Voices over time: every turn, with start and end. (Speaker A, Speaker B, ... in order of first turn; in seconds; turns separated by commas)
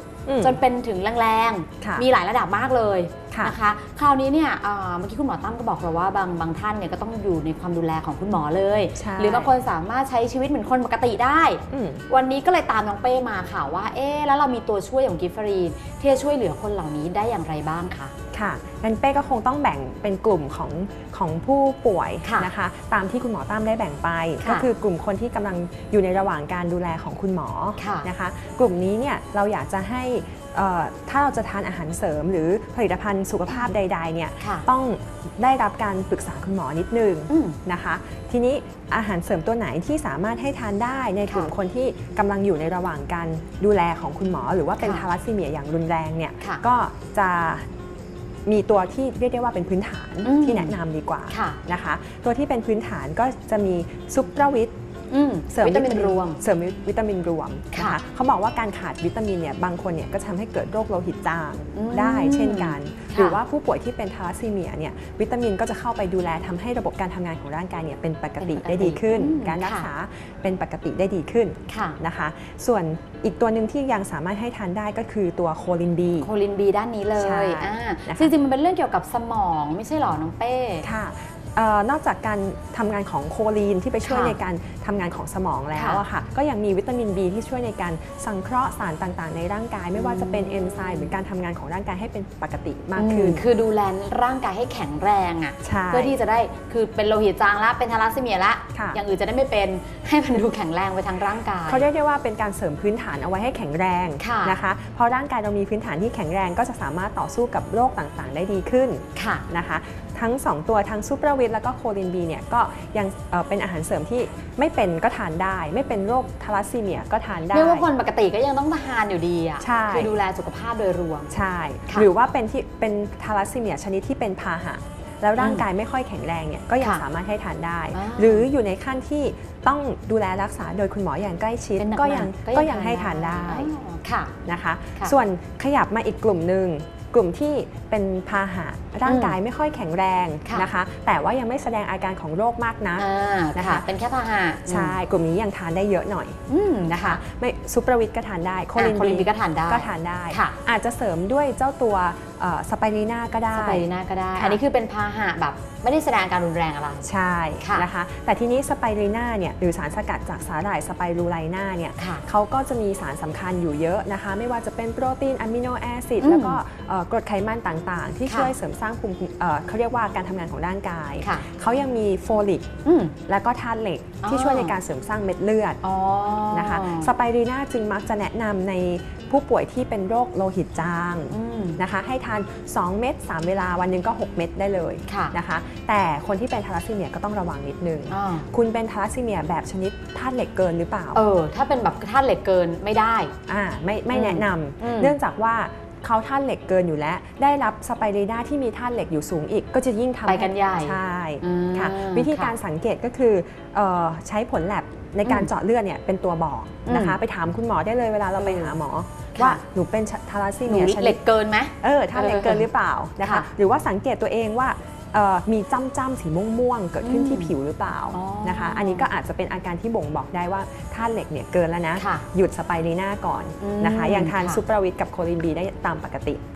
Speaker A: 0.3-0.6, Speaker B: 0.4-18.1, Speaker A: 1.8-2.0, Speaker A: 8.9-9.5, Speaker A: 11.7-12.0, Speaker A: 18.3-47.6, Speaker B: 22.2-22.5, Speaker B: 27.8-28.1, Speaker B: 34.4-34.6, Speaker B: 37.3-37.6, Speaker B: 44.8-45.0, Speaker A: 48.5-54.7, Speaker B: 50.2-50.8, Speaker B: 51.3-51.6, Speaker B: 55.1-56.4, Speaker A: 55.5-76.3, Speaker B: 57.7-58.0, Speaker B: 61.7-63.4, Speaker B: 68.4-69.9, Speaker B: 71.7-72.0, Speaker B: 76.2-80.8, Speaker A: 77.2-78.3, Speaker A: 80.8-93.4, Speaker B: 84.0-84.4, Speaker B: 85.7-86.0, Speaker B: 89.9-91.1, Speaker B: 93.0-101.9, Speaker A: 95.6-96.2, Speaker A: 98.7-99.0, Speaker A: 101.7-117.9, Speaker B: 104.2-104.6, Speaker B: 109.2-109.4, Speaker B: 117.5-121.3, Speaker A: 119.6-120.1, Speaker A: 121.3-133.7, Speaker B: 125.4-125.6, Speaker B: 127.9-128.5, Speaker B: 131.8-134.3, Speaker A: 134.5-143.8, Speaker B: 139.1-139.4, Speaker B: 140.4-140.7, Speaker B: 143.0-144.9, Speaker A: 144.7-146.4, Speaker B: 146.5-147.2, Speaker A: 146.9-154.6, Speaker B: 148.7-150.6, Speaker B: 153.5-157.1, Speaker A: 157.0-172.7, Speaker B: 157.6-157.9, Speaker B: 162.0-162.2, Speaker B: 166.2-166.6, Speaker B: 168.3-168.5, Speaker B: 172.8-173.1, Speaker A: 173.3-175.8, Speaker B: 174.2-174.8, Speaker B: 175.8-177.1, Speaker A: 176.5-191.2, Speaker B: 181.3-181.8, Speaker B: 185.1-185.3, Speaker B: 188.1-188.5, Speaker B: 191.1-193.3, Speaker A: 193.5-211.2, Speaker B: 194.1-195.2, Speaker B: 200.2-202.5, Speaker B: 205.2-205.5, Speaker B: 206.8-207.2, Speaker B: 208.4-208.8, Speaker B: 209.3-209.6, Speaker B: 210.7-212.7, Speaker A: 211.8-226.4, Speaker B: 213.2-213.5, Speaker B: 217.0-217.5, Speaker B: 218.1-219.1, Speaker B: 222.0-222.2, Speaker B: 223.6-224.6